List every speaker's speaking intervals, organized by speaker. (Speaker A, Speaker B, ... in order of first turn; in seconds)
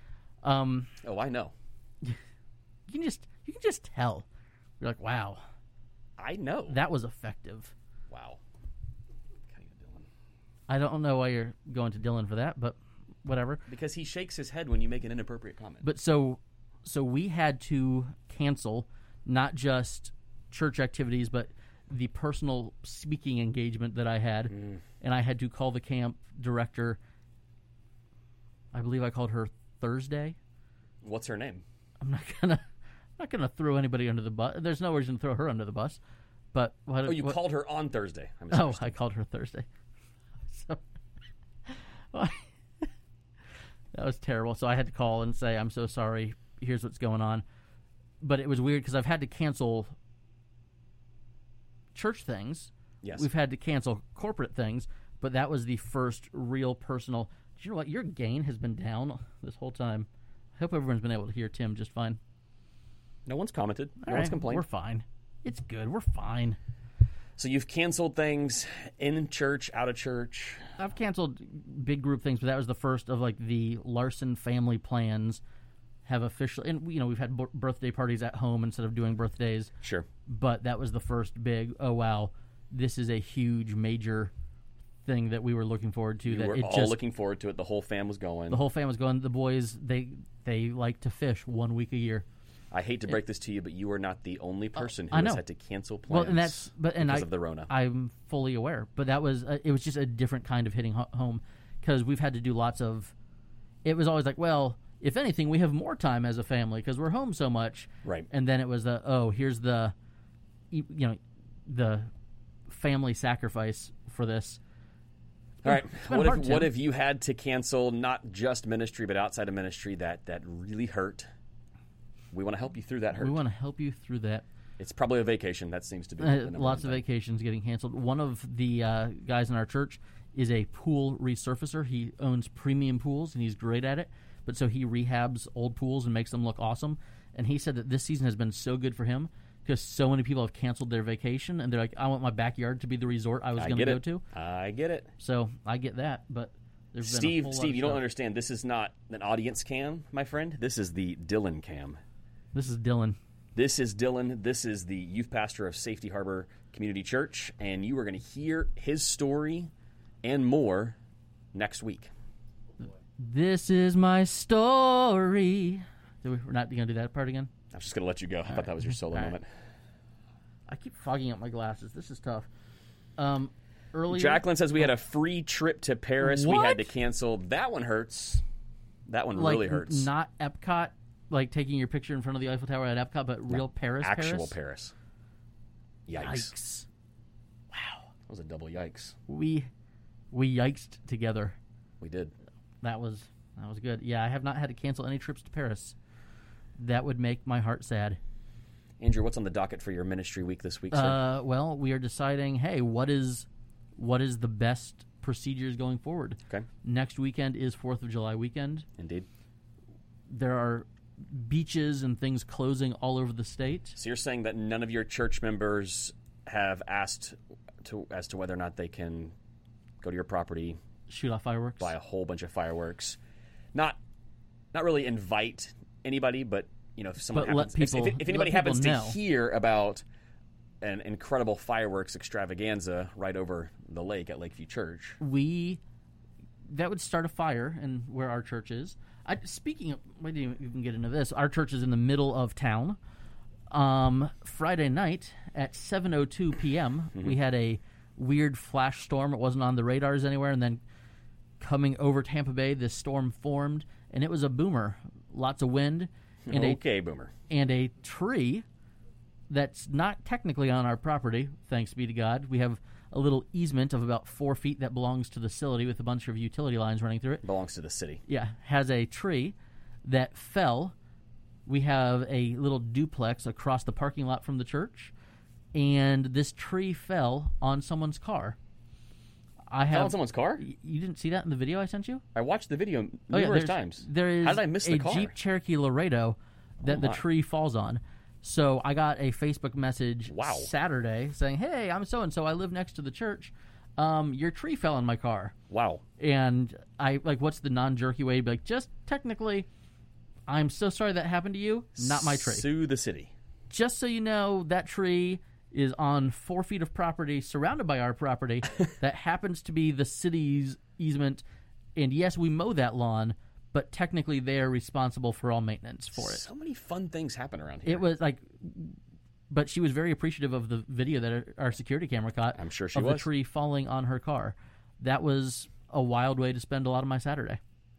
Speaker A: 0.4-0.9, 2.9-4.2, 4.8-5.4, 6.7-7.7, 10.7-13.6, 15.8-27.0, 28.7-30.4, 32.0-32.6, 33.2-36.0, 36.5-37.4, 38.5-39.6, 40.5-40.8, 41.6-42.9, 43.9-47.4, 48.2-49.9, 51.9-62.2, 64.0-66.6, 70.8-75.4, 76.0-79.7, 80.3-84.3, 85.0-87.0, 88.5-92.2, 95.1-95.4, 96.1-103.1, 103.8-109.9, 110.7-112.1, 112.7-114.6, 115.7-116.7, 123.2-124.4, 126.2-144.2, 145.2-148.0, 152.5-153.2, 163.2-167.5, 170.7-172.5, 173.2-174.4, 176.2-176.9, 179.3-184.5, 186.2-186.9, 187.7-188.1, 189.3-189.7, 190.3-191.6, 192.8-195.9, 196.8-198.2, 200.9-208.9, 210.3-213.9, 221.1-221.9, 227.3-229.2, 235.2-235.8, 236.7-243.0, 243.7-250.8, 251.6-256.8, 257.5-258.6, 259.5-267.4, 268.3-270.9, 271.6-275.1, 275.7-278.6, 279.7-282.2, 283.3-295.5, 296.2-299.7, 300.5-302.6, 303.7-311.4, 311.9-316.5, 317.9-319.0, 319.5-327.6
Speaker B: 1.0-1.5, 6.2-6.8, 8.1-8.4, 9.5-10.1, 13.7-15.8, 24.5-24.8, 31.0-31.6, 37.0-38.9, 53.0-53.3, 63.2-64.6, 67.4-70.7, 79.8-80.1, 86.3-88.6, 92.7-97.7, 108.0-108.3, 115.6-121.3, 122.3-123.4, 124.8-127.0, 143.6-145.1, 147.0-152.0, 153.6-159.7, 160.2-160.9, 161.5-162.1, 167.7-169.5, 174.1-178.4, 179.1-180.1, 183.5-184.9, 186.1-186.5, 188.3-189.2, 192.0-192.3, 199.0-201.2, 209.0-209.3, 214.0-219.3, 220.0-220.8, 221.8-223.2, 224.7-230.0, 230.8-235.2, 256.5-257.3, 267.4-268.2, 279.9-280.6, 282.3-285.3, 286.8-287.2, 290.3-290.7, 295.7-296.0, 302.0-303.3, 316.1-318.0, 322.6-323.3